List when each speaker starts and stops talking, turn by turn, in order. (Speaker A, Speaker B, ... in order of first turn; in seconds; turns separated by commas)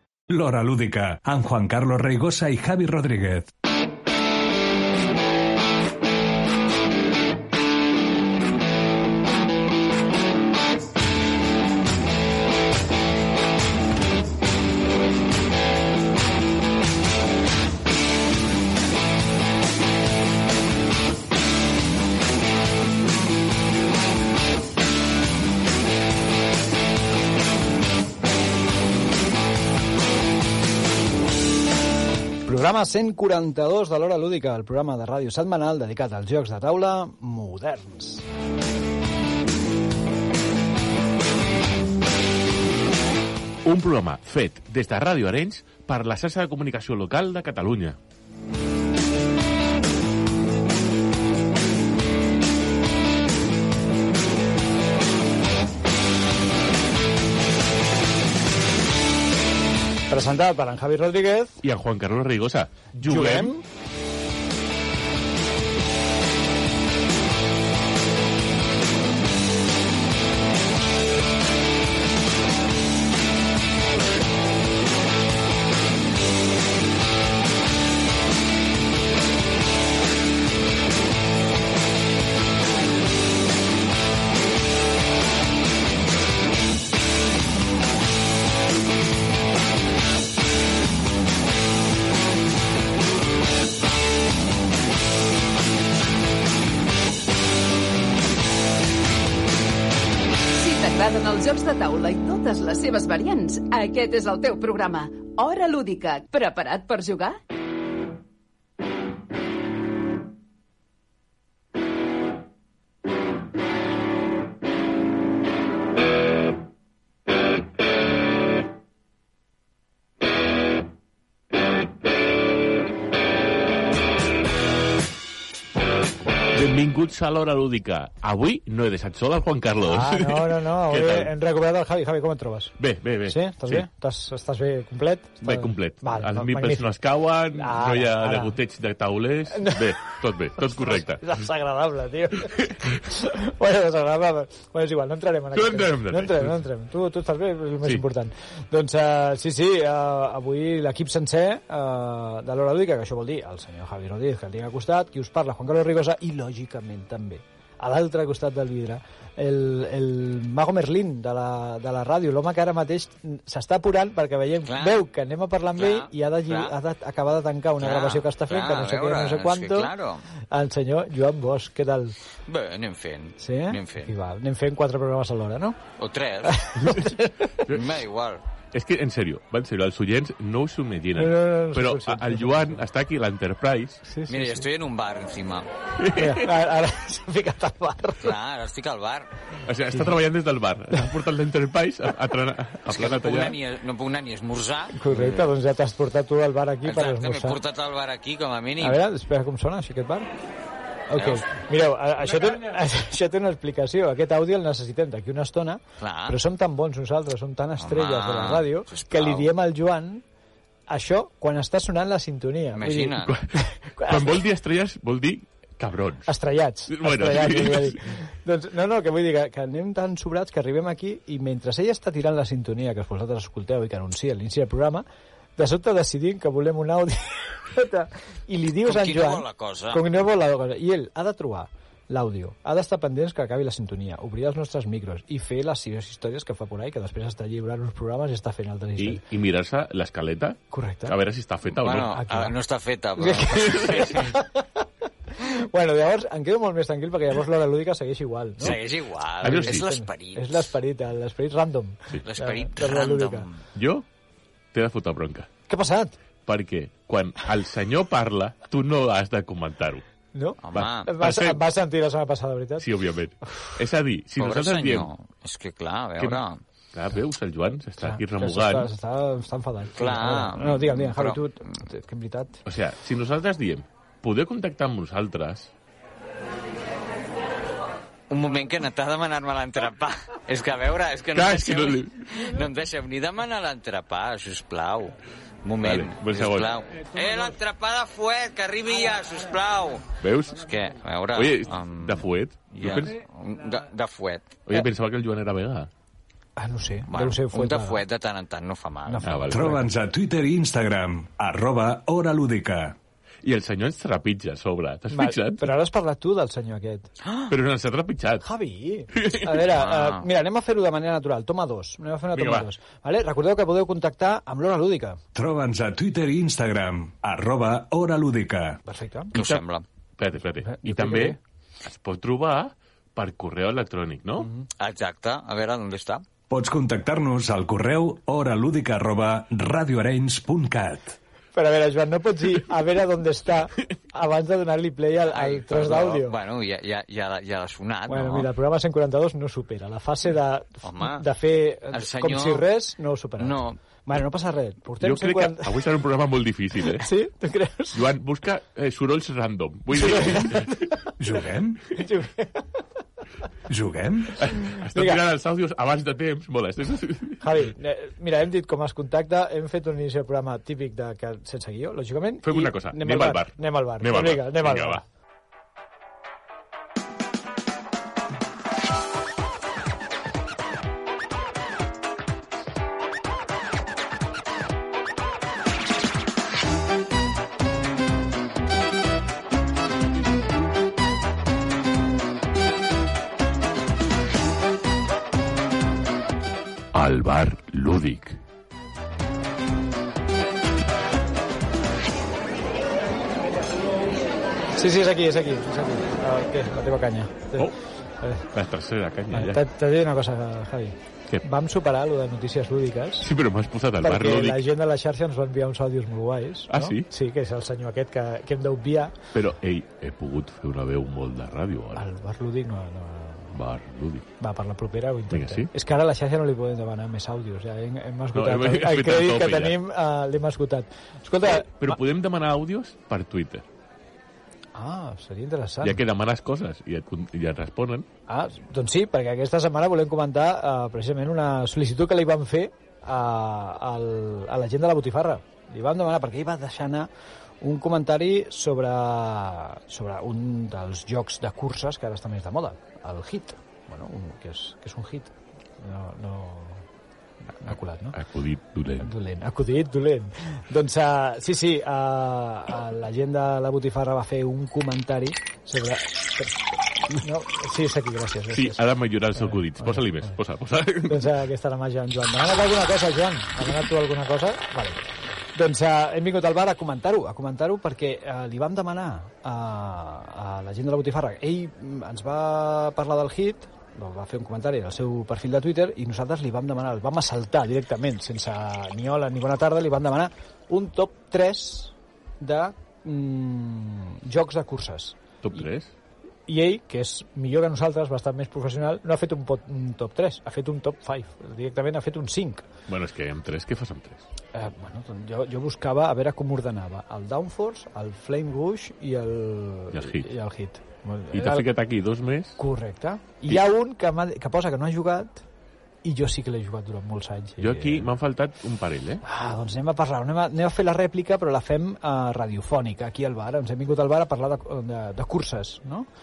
Speaker A: 0.3-3.5, Speaker B: 32.5-38.3, Speaker C: 43.6-48.0, Speaker B: 60.1-61.6, Speaker C: 61.6-63.5, Speaker B: 63.0-63.6, Speaker D: 100.5-107.4, Speaker C: 126.5-131.3, Speaker B: 129.8-136.9, Speaker C: 132.8-133.9, Speaker C: 135.4-141.4, Speaker B: 137.5-138.6, Speaker B: 139.5-169.9, Speaker C: 142.4-143.0, Speaker C: 145.5-146.6, Speaker E: 164.7-165.0, Speaker E: 165.8-166.7, Speaker E: 167.8-170.2, Speaker B: 170.5-172.2, Speaker E: 172.4-174.1, Speaker B: 173.4-175.8, Speaker E: 176.0-176.7, Speaker B: 176.5-177.7, Speaker C: 176.8-177.1, Speaker E: 177.7-178.4, Speaker C: 178.7-184.1, Speaker B: 181.2-182.8, Speaker B: 184.1-184.7, Speaker E: 184.3-185.7, Speaker C: 186.0-186.5, Speaker B: 186.1-188.4, Speaker E: 188.2-189.3, Speaker C: 189.7-193.6, Speaker E: 192.9-195.5, Speaker B: 194.9-197.6, Speaker E: 196.8-199.0, Speaker B: 198.8-200.3, Speaker B: 201.1-210.2, Speaker E: 201.2-201.4, Speaker E: 206.0-206.4, Speaker E: 207.8-209.5, Speaker B: 210.9-214.4, Speaker E: 212.7-213.3, Speaker C: 213.2-216.3, Speaker B: 216.3-225.1, Speaker C: 216.9-218.1, Speaker B: 225.6-239.2, Speaker E: 228.8-230.0, Speaker C: 239.0-242.2, Speaker B: 240.7-241.2, Speaker E: 241.7-244.4, Speaker B: 242.0-242.6, Speaker B: 243.2-248.8, Speaker C: 243.7-244.1, Speaker E: 248.6-250.8, Speaker C: 249.4-249.9, Speaker B: 249.5-253.5, Speaker E: 252.2-253.6, Speaker C: 253.8-254.1, Speaker C: 254.7-255.5, Speaker B: 255.7-256.1, Speaker C: 256.5-260.1, Speaker B: 260.3-262.9, Speaker E: 260.6-261.1, Speaker C: 260.7-261.6, Speaker C: 262.8-265.1, Speaker B: 263.4-263.7, Speaker E: 264.4-266.6, Speaker C: 266.9-268.9, Speaker B: 268.0-272.6, Speaker E: 270.0-271.4, Speaker C: 272.7-275.7, Speaker E: 278.3-294.6, Speaker C: 281.3-282.5, Speaker C: 285.8-286.8, Speaker C: 290.2-290.7, Speaker C: 291.3-293.2, Speaker C: 294.7-295.9, Speaker B: 296.6-298.0, Speaker E: 297.1-299.3, Speaker B: 299.1-299.9, Speaker C: 299.2-299.7, Speaker A: 299.5-303.0, Speaker C: 303.4-305.7, Speaker B: 305.1-307.1, Speaker C: 307.5-308.4, Speaker B: 308.4-315.2, Speaker C: 309.1-309.6, Speaker E: 309.6-310.2, Speaker C: 312.3-312.7, Speaker A: 315.4-318.8, Speaker B: 318.9-319.3, Speaker C: 319.3-319.6, Speaker E: 319.3-319.9, Speaker C: 320.2-324.5, Speaker B: 320.6-321.4, Speaker E: 324.8-326.2, Speaker A: 326.5-331.2, Speaker B: 331.6-336.4, Speaker E: 335.3-338.5, Speaker B: 338.1-345.8, Speaker E: 340.8-341.3, Speaker E: 341.9-342.6, Speaker E: 343.4-343.8, Speaker C: 345.0-347.1, Speaker B: 346.9-348.1, Speaker C: 347.9-350.8, Speaker B: 350.0-351.1, Speaker A: 351.2-351.8, Speaker B: 351.9-352.7, Speaker A: 353.7-354.4, Speaker C: 354.4-357.7, Speaker B: 354.8-355.2, Speaker B: 357.4-365.0, Speaker C: 362.4-365.0, Speaker C: 386.9-388.4, Speaker B: 394.8-398.5, Speaker C: 398.5-399.6, Speaker B: 399.3-403.3, Speaker C: 403.2-404.6, Speaker B: 404.0-409.2, Speaker C: 406.7-407.1, Speaker C: 409.3-412.1, Speaker B: 411.9-413.6, Speaker C: 413.6-414.3, Speaker B: 414.4-422.0, Speaker C: 415.3-415.7, Speaker C: 418.3-419.8, Speaker C: 421.5-423.6, Speaker B: 424.8-426.0, Speaker C: 425.8-428.1, Speaker B: 428.3-437.1, Speaker B: 437.6-446.9, Speaker B: 447.5-448.2, Speaker C: 448.1-449.1, Speaker B: 449.0-456.6, Speaker B: 457.1-458.9, Speaker C: 458.5-461.4, Speaker B: 459.4-460.3, Speaker B: 461.1-465.0, Speaker B: 465.6-485.6, Speaker C: 485.4-485.9, Speaker B: 486.5-492.6, Speaker C: 492.9-494.2, Speaker B: 494.5-501.7, Speaker C: 499.9-500.3, Speaker C: 501.3-502.6, Speaker B: 502.6-505.4, Speaker B: 506.0-508.1, Speaker C: 507.6-509.2, Speaker B: 509.2-516.1